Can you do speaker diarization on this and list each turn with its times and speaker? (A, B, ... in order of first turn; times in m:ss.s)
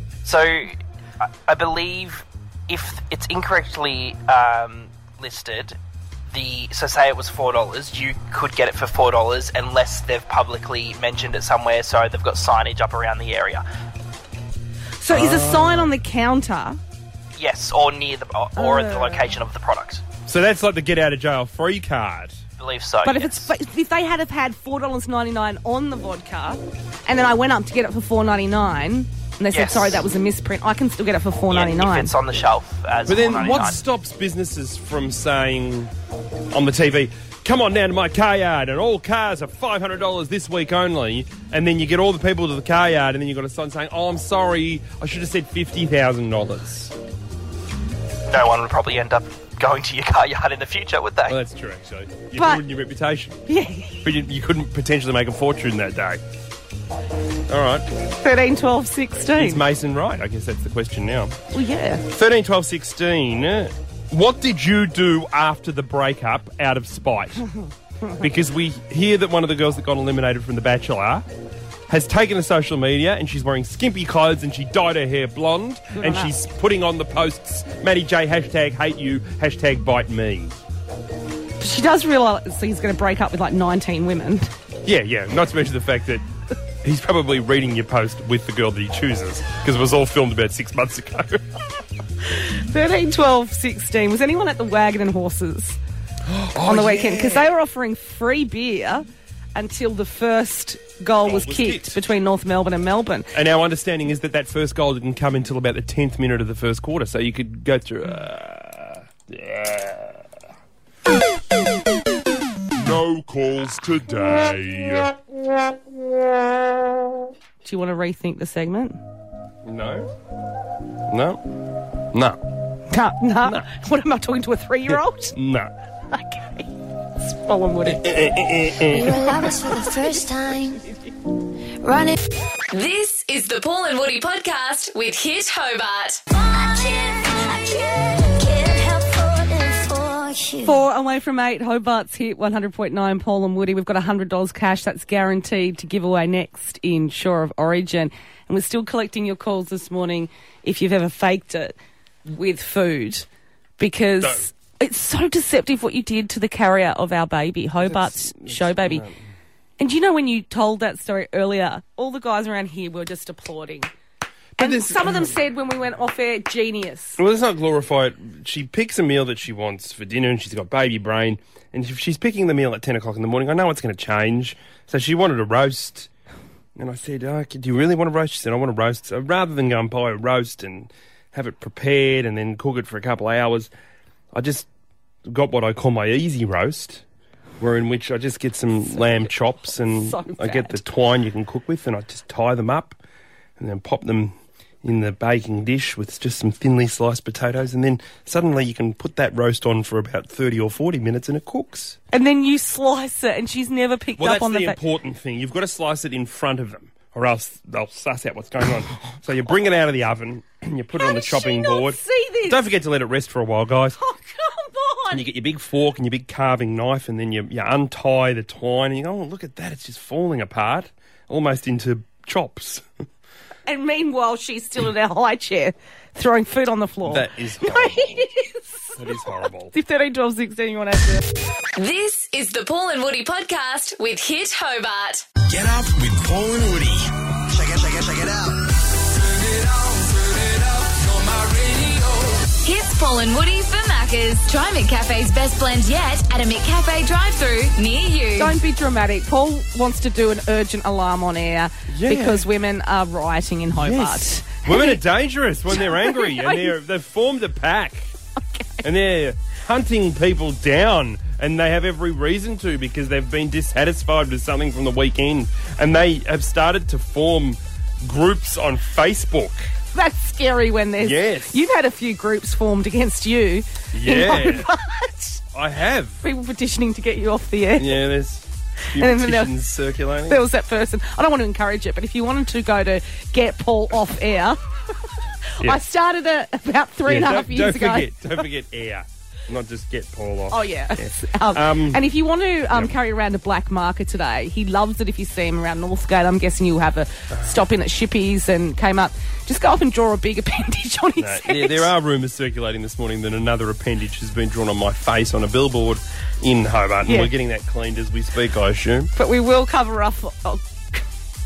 0:00.2-0:13.6 A
0:15.0-0:16.8 B
0:15.1-0:15.9 C
0:17.4-0:20.0 A
0:18.6-0:19.3 B
0:20.2-0:22.4 C
0:22.6-0:23.5 A
0:23.0-0:32.1 B
0:29.5-0:30.0 A
0:31.5-0:33.8 A
0:33.1-0:35.9 C
0:36.5-0:46.9 C
0:48.3-0:51.4 A
0:51.3-0:53.4 C
0:52.3-0:52.6 B
0:53.5-0:54.0 B
0:54.0-0:56.2 C
0:57.5-0:57.9 C
0:58.2-0:59.6 B
0:59.3-1:01.4 C
1:01.5-1:02.1 B
1:02.1-1:07.4 C
1:08.2-1:11.2 C
1:11.9-1:20.6 C
1:15.9-1:16.3 B
1:21.6-1:24.5 B
1:24.8-1:26.3 C
1:26.8-1:31.5 C
1:32.3-1:35.8 B
1:36.2-1:37.5 C
1:36.6-1:43.3 B
1:41.2-1:42.0 C
1:43.3-1:50.2 C
1:52.8-1:55.1 C
1:57.6-1:59.0 B
1:59.6-2:00.1 C
2:01.1-2:01.4 C
2:02.1-2:02.4 C
2:02.9-2:05.4 B
2:04.9-2:05.7 C
2:06.1-2:06.7 B
2:07.2-2:08.1 B
2:07.8-2:09.5 C
2:08.9-2:10.8 D
2:11.8-2:12.2 D
2:12.7-2:16.2 E
2:16.4-2:20.8 D
2:20.6-2:31.7 B
2:32.3-2:33.2 B
2:33.8-2:39.0 B
2:37.8-2:39.2 C
2:39.8-2:43.9 B
2:44.6-2:45.4 C
2:44.6-2:47.2 B
2:47.2-2:56.1 C
2:56.8-3:03.7 C
3:04.3-3:04.7 C
3:05.2-3:07.0 C
3:07.6-3:13.0 C
3:08.9-3:10.8 B
3:13.6-3:22.0 C
3:22.1-3:24.8 B
3:24.2-3:34.0 C
3:30.9-3:32.6 B
3:34.0-3:35.2 B
3:35.1-3:42.8 C
3:43.7-3:49.0 B
3:47.0-3:48.3 C
3:49.0-3:49.7 C
3:49.7-3:51.2 B
3:51.8-3:55.2 E
3:55.5-4:02.5 F
4:02.6-4:08.5 E
4:08.4-4:15.0 B
4:11.9-4:12.5 C
4:13.8-4:18.1 C
4:15.7-4:16.7 B
4:18.4-4:18.8 B
4:18.8-4:29.7 C
4:29.9-4:35.4 B
4:31.0-4:31.6 C
4:33.9-4:34.7 C
4:35.5-4:36.2 C
4:36.2-4:38.0 B
4:37.8-4:40.4 C
4:38.9-4:39.5 B
4:40.3-4:44.6 B
4:45.6-4:48.4 B
4:47.0-4:52.0 C
4:50.5-5:01.9 B
4:57.3-4:57.6 C
5:01.2-5:09.1 C
5:09.2-5:11.0 B